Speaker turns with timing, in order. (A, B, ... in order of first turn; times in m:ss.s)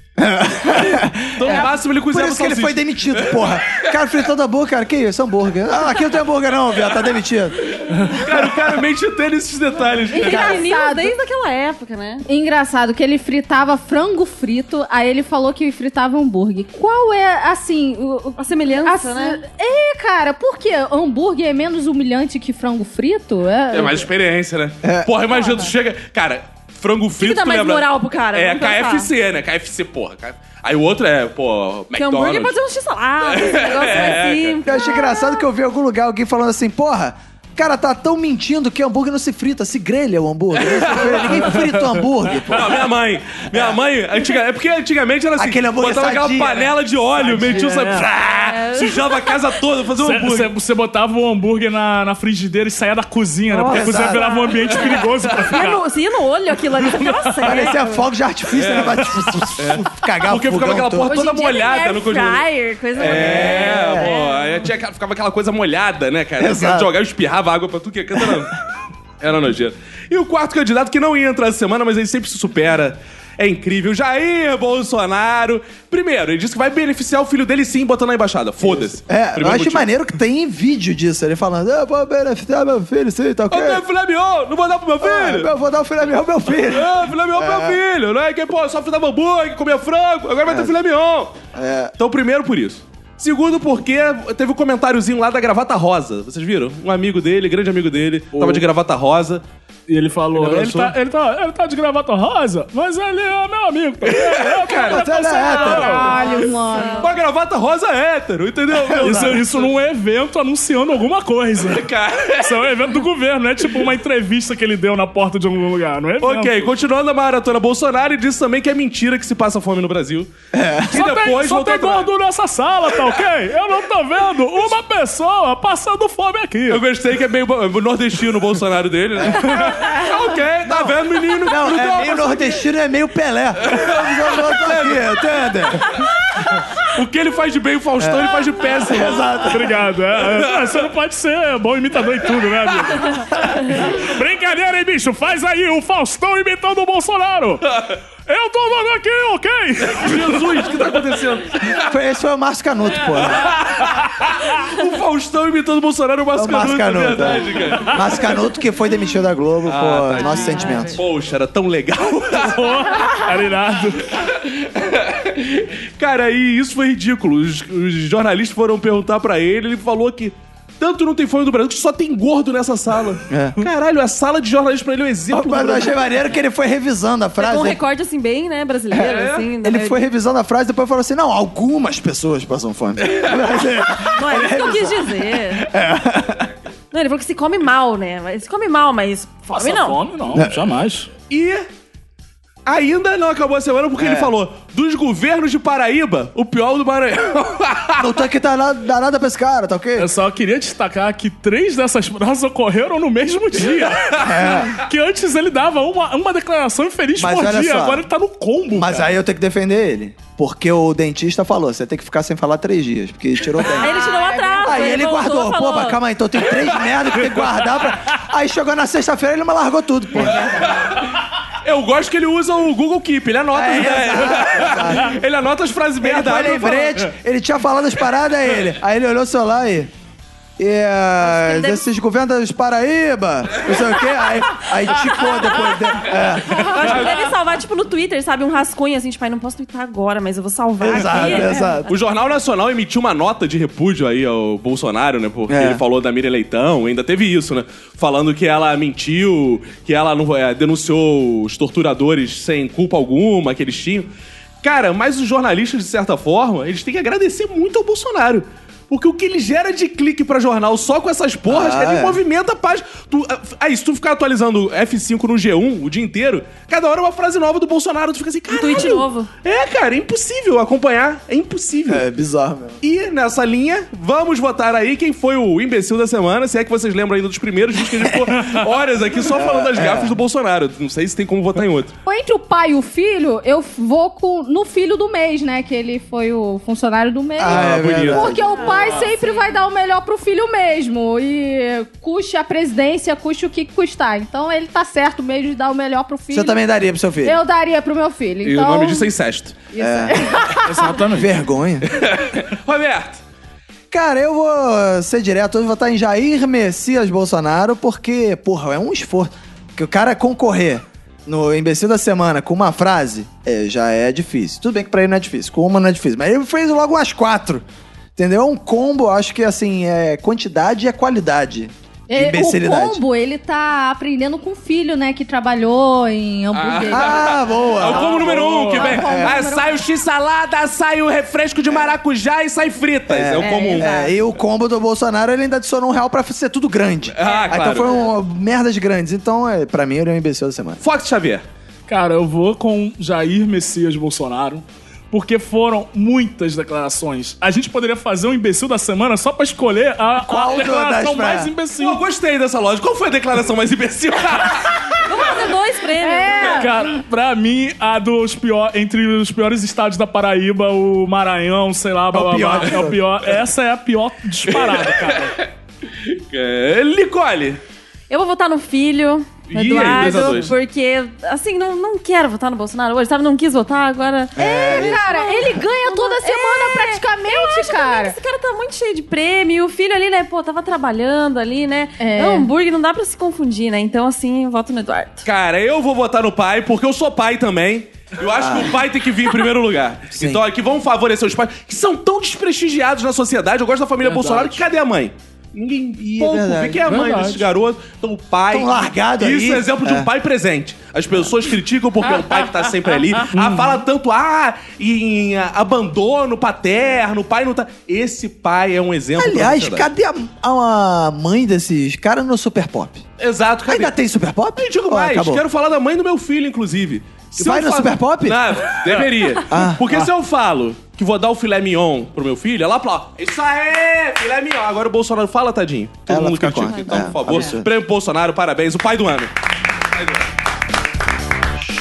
0:00.2-0:07.7 A
0:01.3-0:03.9 B
0:07.8-0:10.6 B
0:10.1-0:11.2 C
0:10.1-0:12.2 D
0:12.3-0:24.1 C
0:18.4-0:19.4 D
0:23.7-0:32.6 B
0:24.8-0:25.1 A
0:25.3-0:25.7 D
0:27.2-0:29.1 D
0:32.0-0:35.4 D
0:33.2-0:34.6 B
0:34.6-0:42.9 A
0:40.5-0:41.6 B
0:41.5-0:42.1 E
0:42.3-0:50.5 B
0:45.4-0:47.7 A
0:47.3-0:48.1 E
0:48.0-0:49.4 D
0:50.0-0:55.8 E
0:53.5-0:58.1 D
0:53.7-0:54.3 A
0:56.8-0:57.7 E
0:57.4-1:01.1 A
0:58.5-1:08.6 B
1:01.0-1:04.7 D
1:03.0-1:04.1 A
1:06.4-1:06.9 A
1:08.2-1:08.5 A
1:09.2-1:19.9 B
1:18.8-1:23.8 A
1:23.5-1:25.5 B
1:25.0-1:27.8 A
1:26.6-1:31.4 B
1:30.5-1:30.7 A
1:31.5-1:31.9 A
1:32.0-1:39.4 B
1:38.3-1:38.6 E
1:39.9-1:46.2 E
1:40.3-1:41.0 B
1:44.0-1:45.1 B
1:44.8-1:46.2 A
1:45.4-1:47.1 C
1:45.5-1:47.1 D
1:47.0-1:49.7 B
1:48.7-1:49.5 A
1:49.0-1:56.7 E
1:51.6-1:52.8 B
1:56.2-2:00.3 B
2:00.5-2:01.0 A
2:00.9-2:06.8 E
2:00.9-2:02.1 B
2:06.7-2:12.6 B
2:09.2-2:09.5 A
2:10.6-2:15.8 A
2:13.6-2:16.0 B
2:16.8-2:19.4 B
2:18.0-2:19.8 A
2:19.4-2:27.7 E
2:28.3-2:30.5 E
2:29.9-2:31.9 B
2:31.6-2:33.5 A
2:33.1-2:38.4 B
2:36.4-2:41.0 A
2:39.6-2:42.8 B
2:40.2-2:41.0 D
2:42.4-2:44.2 E
2:44.2-2:56.0 B
2:53.3-2:53.6 A
2:55.3-2:57.8 A
2:57.4-3:00.0 D
2:58.9-3:06.5 A
2:59.0-2:59.5 B
3:03.0-3:03.4 B
3:04.1-3:05.7 D
3:06.9-3:10.0 D
3:09.5-3:11.1 E
3:10.3-3:10.6 A
3:11.3-3:11.7 B
3:12.7-3:18.2 B
3:14.0-3:14.3 A
3:18.0-3:20.1 A
3:20.0-3:29.1 E
3:24.2-3:24.8 A
3:27.2-3:28.0 A
3:28.7-3:34.0 A
3:33.6-3:35.2 C
3:33.7-3:36.0 D
3:34.6-3:40.7 A
3:40.2-3:47.1 B
3:40.2-3:40.7 C
3:43.5-3:45.2 A
3:46.0-3:49.9 A
3:50.6-3:57.0 A
3:51.2-3:51.8 D
3:56.5-4:02.0 D
3:56.8-3:57.3 B
4:00.8-4:01.9 A
4:01.2-4:14.1 B
4:05.5-4:05.8 A
4:14.6-4:32.0 B
4:21.5-4:22.2 A
4:28.5-4:29.3 D
4:31.9-4:32.8 A
4:32.8-4:41.9 B
4:39.3-4:40.2 A
4:42.1-4:56.6 C
4:47.4-4:48.6 A
4:47.5-4:48.4 B
4:48.3-4:49.6 D
4:56.3-4:57.4 A
4:57.2-4:59.1 C
4:58.4-4:59.6 B
4:59.7-5:01.0 C
4:59.8-5:00.4 A
5:00.5-5:01.4 E
5:01.1-5:02.0 A
5:01.9-5:03.2 B
5:03.9-5:17.6 A
5:18.2-5:23.0 A
5:22.1-5:29.8 C
5:26.5-5:33.9 B
5:26.9-5:28.3 A
5:27.9-5:29.0 E
5:28.8-5:29.4 A
5:31.7-5:32.0 A
5:33.1-5:40.8 A
5:33.4-5:34.2 C
5:37.1-5:38.0 B
5:37.3-5:38.1 D
5:40.8-5:41.5 B
5:41.9-5:52.0 E
5:50.2-5:51.5 A
5:51.8-5:55.0 B
5:55.0-5:56.7 D
5:56.0-5:56.8 C
5:56.4-6:05.4 E
6:02.1-6:03.0 A
6:04.5-6:07.6 B
6:08.1-6:25.3 D
6:09.5-6:10.5 B
6:14.4-6:15.1 A
6:14.4-6:18.2 C
6:22.0-6:22.5 C
6:25.2-6:49.9 B
6:28.4-6:28.7 A
6:30.2-6:30.4 A
6:34.0-6:34.6 E
6:36.0-6:36.9 A
6:36.8-6:37.5 E
6:38.5-6:40.1 A
6:43.1-6:43.8 E
6:49.2-6:53.0 A
6:53.2-6:54.0 B
6:53.7-6:55.4 A
6:54.6-7:09.3 B
6:57.4-6:58.7 A
6:59.4-7:00.0 A
7:06.1-7:07.7 A
7:06.7-7:07.4 D